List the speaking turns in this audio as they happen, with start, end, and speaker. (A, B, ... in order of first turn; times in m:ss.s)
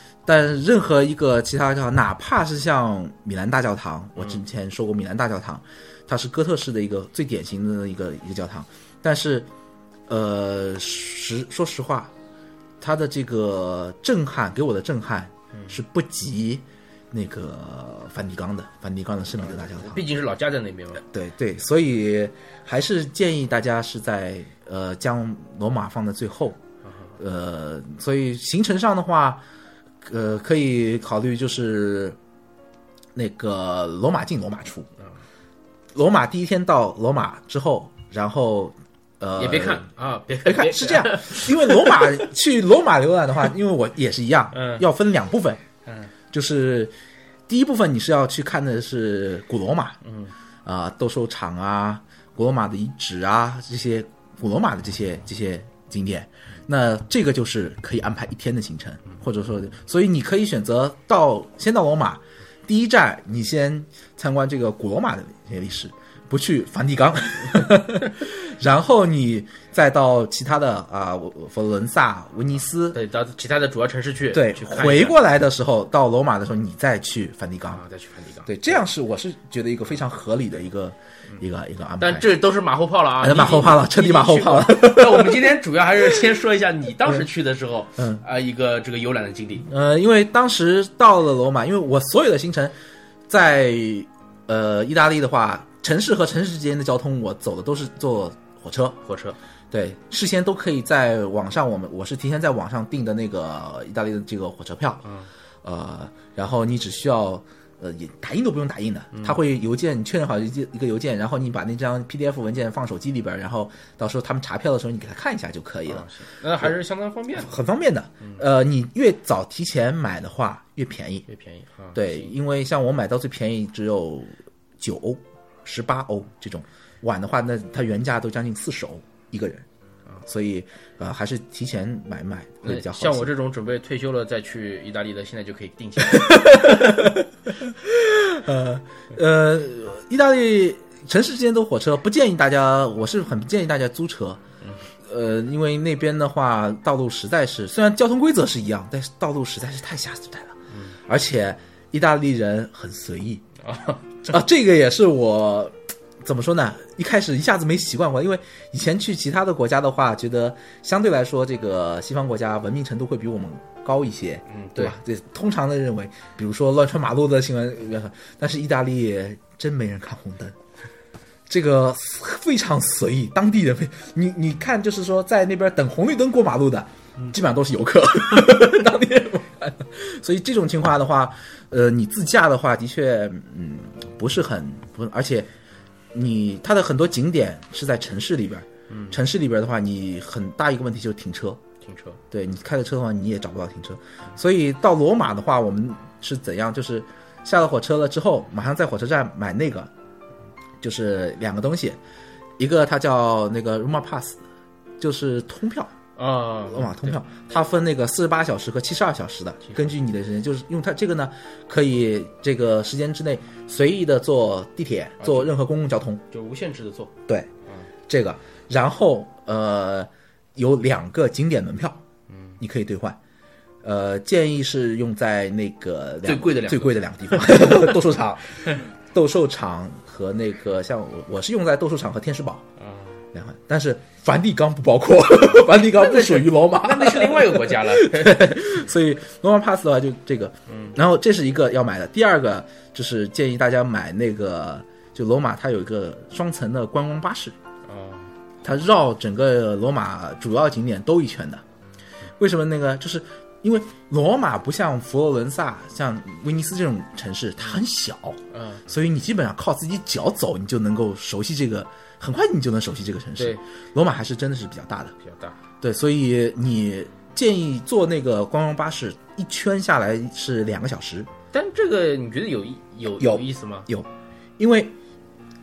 0:00.3-0:09.5 A
0:10.1-0:12.1 A
0:12.8-0:20.1 A
0:15.5-0:15.8 B
0:19.5-0:21.0 B
0:21.0-0:26.6 A
0:27.2-0:29.4 A
0:30.0-0:32.2 A
0:33.2-0:34.9 A
0:36.0-0:39.9 A
0:39.4-0:42.3 B
0:40.4-0:45.6 A
0:44.5-0:44.9 B
0:46.3-0:46.9 A
0:47.5-0:50.0 A
0:50.0-0:50.3 B
0:50.6-1:13.0 A
1:12.9-1:15.2 B
1:14.3-1:17.8 A
1:17.7-1:18.6 B
1:18.4-1:22.3 A
1:22.0-1:29.7 B
1:23.2-1:25.5 A
1:28.0-1:28.2 A
1:29.7-1:32.8 A
1:33.3-1:39.0 A
1:39.1-1:39.4 B
1:39.7-1:45.0 A
1:45.0-1:45.3 B
1:45.6-1:56.1 A
1:49.1-1:49.4 B
1:55.9-1:57.6 B
1:57.4-2:01.2 A
2:01.3-2:02.3 B
2:02.0-2:09.7 A
2:10.2-2:13.3 A
2:12.6-2:17.2 B
2:16.0-2:24.4 A
2:25.1-2:33.4 A
2:30.7-2:31.0 B
2:33.6-2:34.3 B
2:34.2-2:50.6 A
2:44.5-2:45.0 B
2:51.5-3:05.5 A
3:06.1-3:11.6 A
3:08.9-3:09.2 B
3:11.8-3:12.2 B
3:12.3-3:19.9 A
3:20.8-3:22.0 A
3:22.6-3:24.4 A
3:25.0-3:25.9 A
3:26.2-3:27.2 B
3:26.7-3:36.2 A
3:35.2-3:35.6 B
3:36.3-3:37.1 B
3:38.1-3:42.0 A
3:42.3-3:42.6 B
3:42.6-3:43.2 A
3:43.8-3:52.6 A
3:46.2-3:48.0 B
3:52.8-3:53.2 B
3:53.3-4:07.6 A
3:55.6-3:58.6 B
4:00.7-4:01.0 B
4:07.9-4:08.3 B
4:08.6-4:11.6 A
4:12.4-4:25.2 A
4:18.5-4:18.8 B
4:23.4-4:23.6 B
4:25.2-4:25.6 B
4:25.8-4:31.3 A
4:31.5-4:33.9 B
4:33.2-4:34.1 A
4:34.6-4:34.9 A